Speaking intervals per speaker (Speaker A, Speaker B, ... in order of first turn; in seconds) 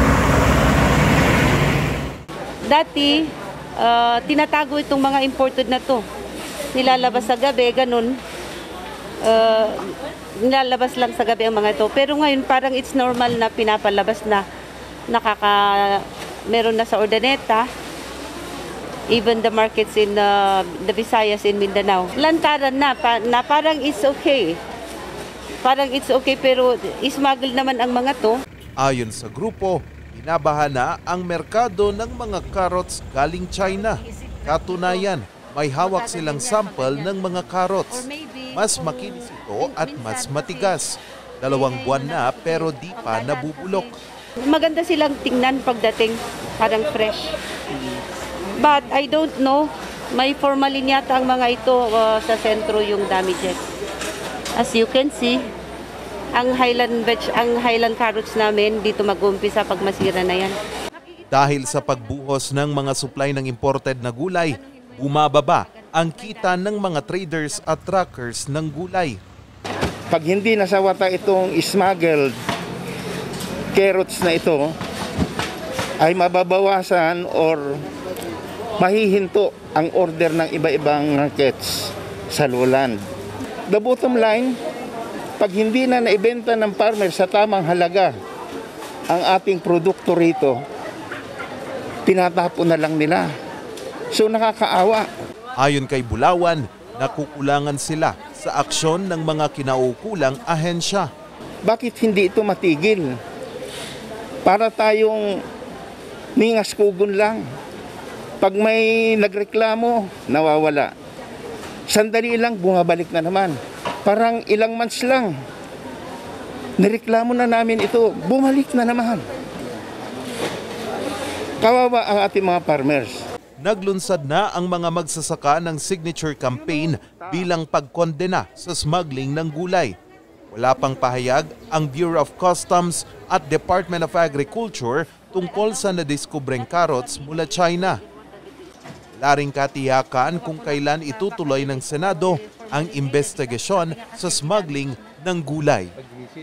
Speaker A: 2.7-6.0, 6.7-8.2, 9.2-14.4, 15.1-17.7, 19.1-24.6, 25.6-28.4, 35.8-37.1, 38.0-40.8, 41.5-43.9, 44.4-47.4, 48.5-53.7, 54.5-55.4, 56.3-60.6, 64.7-66.7, 136.8-137.4, 140.5-144.8
Speaker B: 28.8-43.9, 61.3-69.2, 95.6-101.1, 123.6-129.9, 130.5-138.0, 139.2-145.9
Speaker C: 70.1-72.4, 73.7-74.7, 76.0-77.8, 78.8-83.0, 83.7-84.6, 85.4-88.1, 89.1-90.6, 92.1-93.3, 94.1-95.0, 101.7-103.1, 104.5-105.4, 106.4-107.4, 108.4-110.9, 111.9-115.3, 116.8-119.3, 121.6-123.2